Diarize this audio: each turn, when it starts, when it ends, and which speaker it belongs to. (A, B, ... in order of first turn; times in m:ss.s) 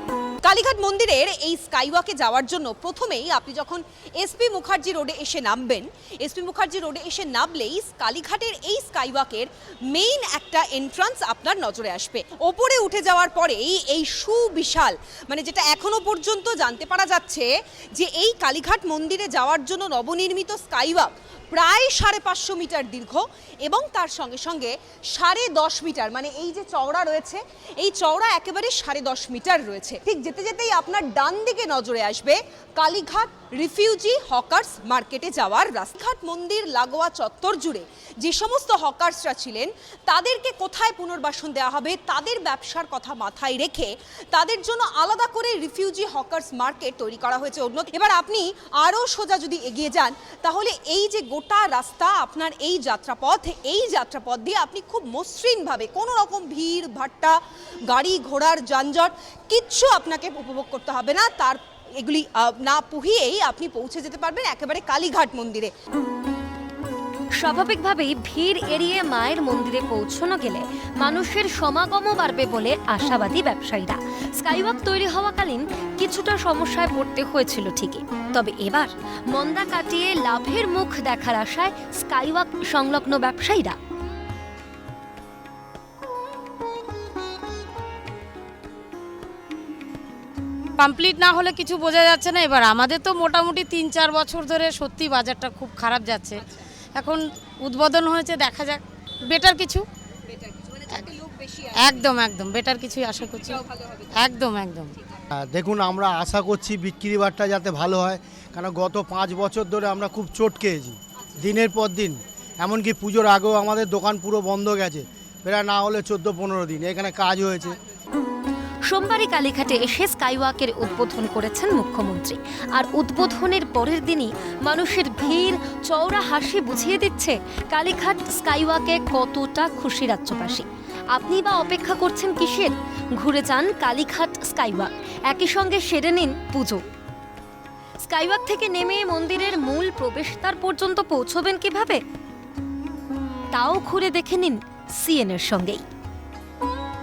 0:00.4-0:57.4 A
0:57.9-1:05.7 A
1:07.4-1:23.8 B
1:30.8-1:36.4 C
1:37.0-1:39.8 C
1:40.3-1:42.0 A
1:41.8-1:43.6 C
1:44.2-1:44.9 C
1:45.3-1:57.8 D
1:58.9-2:16.8 B
2:18.0-2:22.0 B
2:23.5-2:25.8 B